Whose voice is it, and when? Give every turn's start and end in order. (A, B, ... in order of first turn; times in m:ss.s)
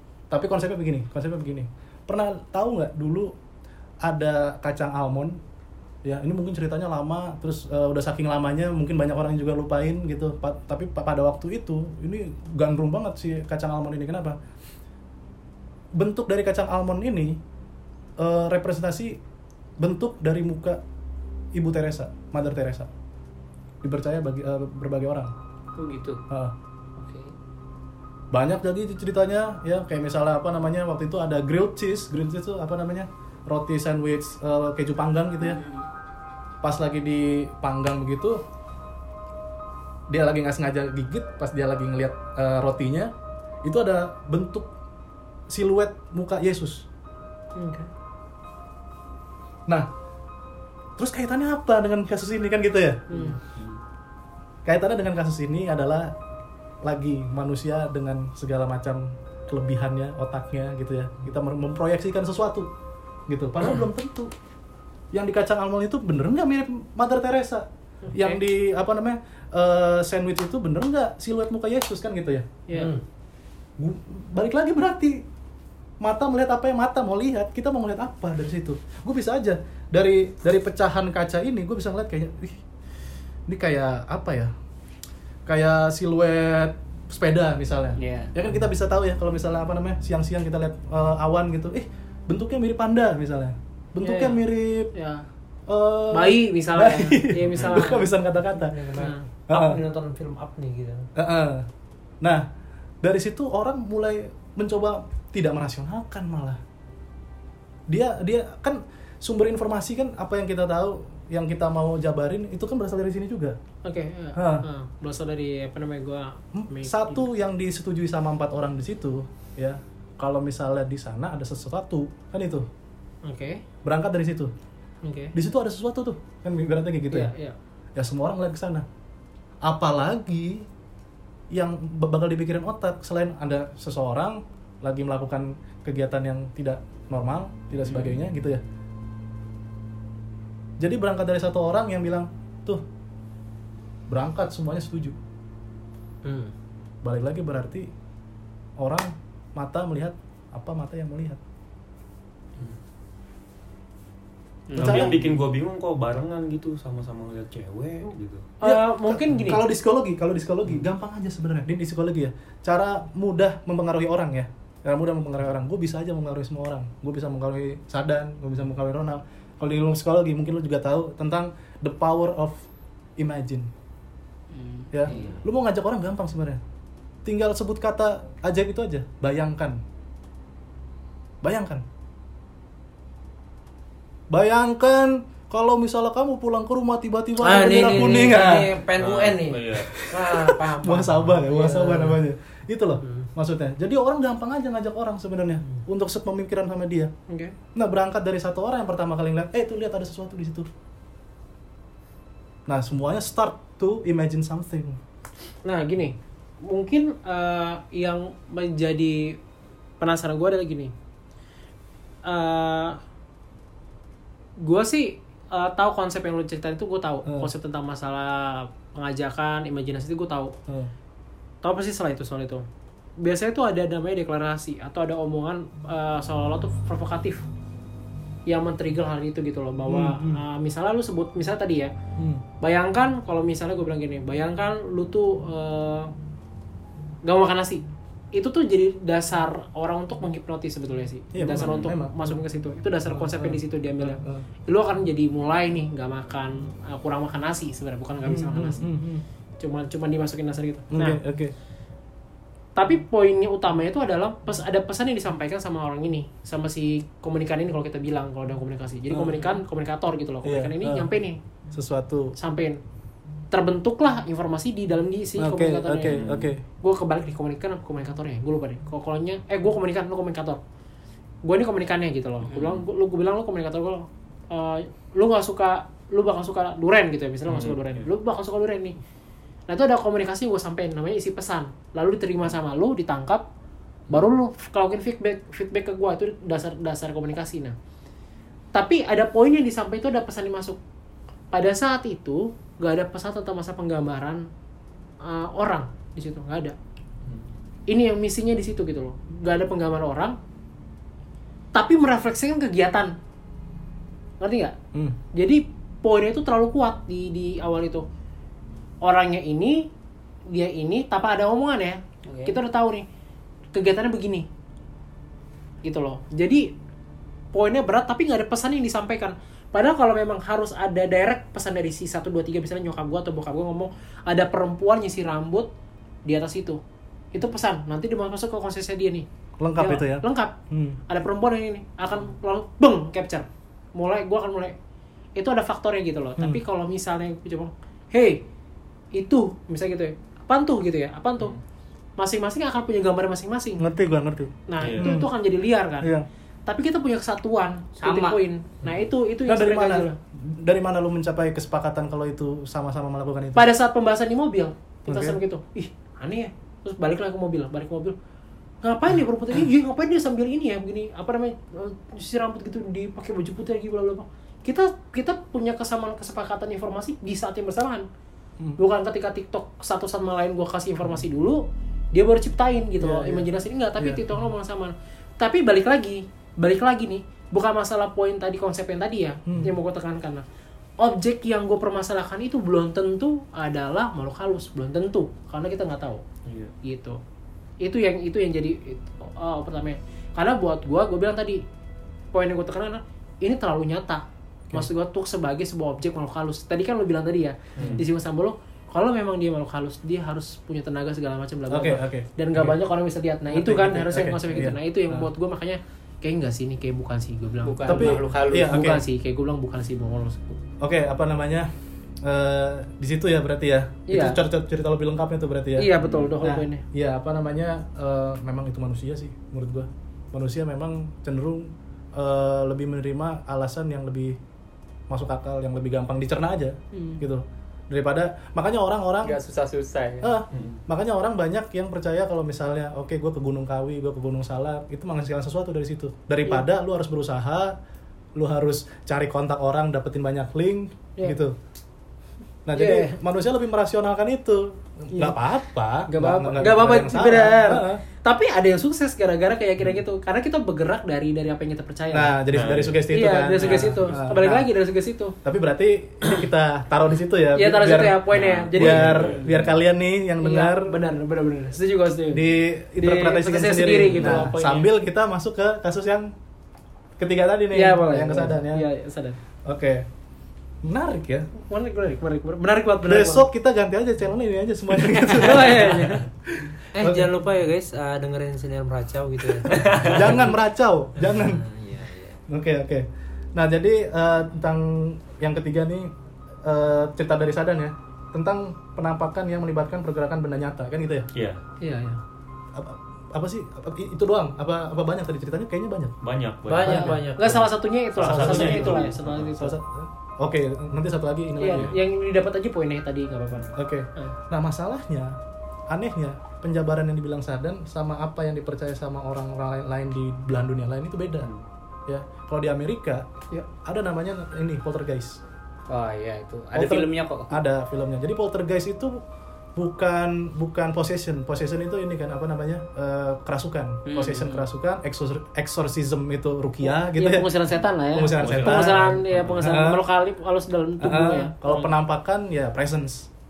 0:00.3-0:03.3 A
0:04.0-0:05.4 A
0:06.0-0:14.4 A
0:15.9-0:17.4 A
0:18.2-0:19.2 A
0:19.8-0:20.8 A
0:21.5-0:22.9 A
0:23.8-0:25.3 A
0:25.8-0:26.2 B
0:27.0-0:27.3 B
0:28.3-0:35.6 A
0:35.4-0:35.8 B
0:36.6-0:38.4 A
0:40.1-0:43.1 A
0:43.6-0:44.7 A
0:45.5-0:46.9 A
0:47.5-0:47.9 C
0:51.0-0:53.2 A
0:53.1-0:53.4 C
0:54.6-0:56.1 A
0:56.8-1:02.7 A
1:03.3-1:04.3 A
1:05.1-1:12.6 A
1:08.0-1:08.4 C
1:12.7-1:13.0 C
1:12.7-1:13.0 D
1:13.8-1:15.2 A
1:16.0-1:22.6 A
1:23.5-1:24.5 A
1:25.4-1:34.9 A
1:28.0-1:28.3 B
1:34.0-1:35.2 C
1:35.7-1:38.9 A
1:36.1-1:38.1 C
1:37.5-1:37.8 E
1:38.5-1:41.1 D
1:39.0-1:39.2 C
1:39.5-1:39.8 A
1:41.2-1:41.6 A
1:43.0-1:46.6 A
1:47.9-1:53.6 A
1:53.8-1:57.3 C
1:54.4-1:54.6 A
1:56.5-2:02.7 A
2:03.2-2:03.6 C
2:03.8-2:04.5 A
2:05.0-2:05.3 C
2:05.3-2:07.3 A
2:07.1-2:07.6 C
2:08.0-2:08.8 A
2:09.6-2:10.7 A
2:11.5-2:18.6 A
2:20.8-2:22.8 A
2:24.1-2:25.2 A
2:26.2-2:26.5 D
2:27.0-2:27.9 A
2:28.8-2:31.4 A
2:34.7-2:35.2 B
2:34.7-2:38.5 E
2:34.8-2:35.2 A
2:38.6-2:39.6 C
2:38.6-2:52.6 A
2:53.2-2:53.7 A
2:54.5-2:55.4 B
2:54.9-2:56.6 A
2:55.1-2:55.4 D
2:57.2-2:59.8 A
3:01.4-3:01.8 A
3:04.3-3:08.7 A
3:07.4-3:12.2 D
3:09.0-3:09.9 E
3:09.8-3:17.1 A
3:13.0-3:13.3 D
3:17.3-3:17.5 C
3:17.7-3:20.7 A
3:22.7-3:25.0 A
3:25.6-3:29.4 C
3:30.0-3:30.9 C
3:32.2-3:33.0 C
3:34.6-3:40.5 C
3:41.6-3:42.6 C
3:43.2-3:47.4 C
3:48.4-3:51.9 C
3:49.8-3:50.4 A
3:52.2-3:52.4 A
3:52.6-3:56.1 C
3:57.2-4:08.9 C
4:01.3-4:02.4 A
4:01.6-4:01.9 E
4:03.1-4:04.4 A
4:08.2-4:09.2 A
4:09.6-4:11.2 C
4:10.9-4:11.5 A
4:12.8-4:21.4 C
4:19.1-4:19.5 A
4:20.4-4:21.1 A
4:21.7-4:22.4 A
4:22.4-4:22.8 C
4:23.5-4:26.2 C
4:25.4-4:26.6 A
4:26.0-4:26.5 E
4:26.8-4:30.6 C
4:31.4-4:39.0 C
4:32.5-4:32.7 B
4:37.5-4:38.0 E
4:39.7-4:43.5 C
4:44.1-4:47.7 C
4:48.7-4:50.8 C
4:51.5-4:54.5 C
4:55.2-4:56.8 C
4:57.9-5:00.4 C
5:01.7-5:03.2 C
5:04.4-5:04.7 C
5:05.3-5:08.0 C
5:09.0-5:09.9 C
5:10.5-5:13.0 C
5:12.2-5:12.6 B
5:13.7-5:14.5 C
5:15.8-5:16.7 C
5:17.5-5:25.7 C
5:26.2-5:26.8 C
5:27.3-5:29.2 C
5:29.6-5:31.0 A
5:29.8-5:30.5 C
5:31.1-5:34.8 C
5:35.3-5:38.4 C
5:39.1-5:41.6 C
5:42.2-5:43.8 C
5:43.8-5:45.3 A
5:44.7-5:46.1 C
5:44.8-5:45.1 E
5:46.6-5:50.2 C
5:48.0-5:48.4 B
5:49.4-5:53.7 A
5:53.5-5:58.2 C
5:55.1-5:55.4 A
5:58.8-6:08.0 C
6:08.8-6:20.4 C
6:13.0-6:14.3 A
6:19.4-6:19.8 A
6:21.0-6:26.2 C
6:26.4-6:26.7 E
6:26.8-6:27.2 C
6:27.8-6:31.6 C
6:32.3-6:50.6 C
6:37.8-6:38.0 E
6:41.7-6:42.8 A
6:43.5-6:45.2 A
6:47.6-6:48.9 B
6:47.8-6:49.0 A
6:50.8-6:51.7 A
6:52.2-7:04.4 A
6:54.1-6:54.4 C
6:55.8-6:56.8 C
6:56.0-6:56.3 E
7:05.1-7:09.4 A
7:06.9-7:07.2 C
7:09.2-7:10.3 B
7:10.2-7:17.8 A
7:10.5-7:10.8 E
7:18.4-7:21.5 A
7:22.6-7:28.0 A
7:22.7-7:23.2 C
7:26.1-7:32.3 C
7:32.1-7:34.7 A
7:32.5-7:33.0 E
7:33.1-7:35.4 C
7:33.6-7:34.0 E
7:35.4-7:41.0 A
7:37.5-7:39.6 C
7:38.3-7:39.6 E
7:40.4-7:44.9 C
7:42.3-7:46.3 A
7:47.2-7:48.8 A
7:47.7-7:49.4 C
7:49.6-7:50.0 A
7:50.8-7:51.5 A
7:51.5-7:53.4 C
7:53.0-7:57.3 A
7:55.0-7:56.3 C
7:56.9-8:00.5 D
7:59.7-8:00.2 E
7:59.8-8:01.6 A
8:01.3-8:02.4 D
8:02.5-8:06.1 A
8:06.6-8:11.3 A
8:11.3-8:11.6 E
8:11.8-8:12.2 C
8:12.7-8:16.1 A
8:16.2-8:17.6 E
8:16.7-8:17.7 D
8:16.8-8:19.8 C
8:16.9-8:17.2 A
8:18.1-8:19.5 E
8:18.2-8:22.0 A
8:21.6-8:24.3 C
8:23.7-8:25.4 A
8:25.9-8:31.5 A
8:32.1-8:33.3 A
8:33.8-8:35.4 A
8:35.9-8:37.6 B
8:36.7-8:39.2 A
8:39.8-8:47.5 A
8:44.0-8:44.7 B
8:46.9-8:51.9 C
8:48.1-8:50.0 A
8:48.4-8:49.6 E
8:51.0-8:53.3 A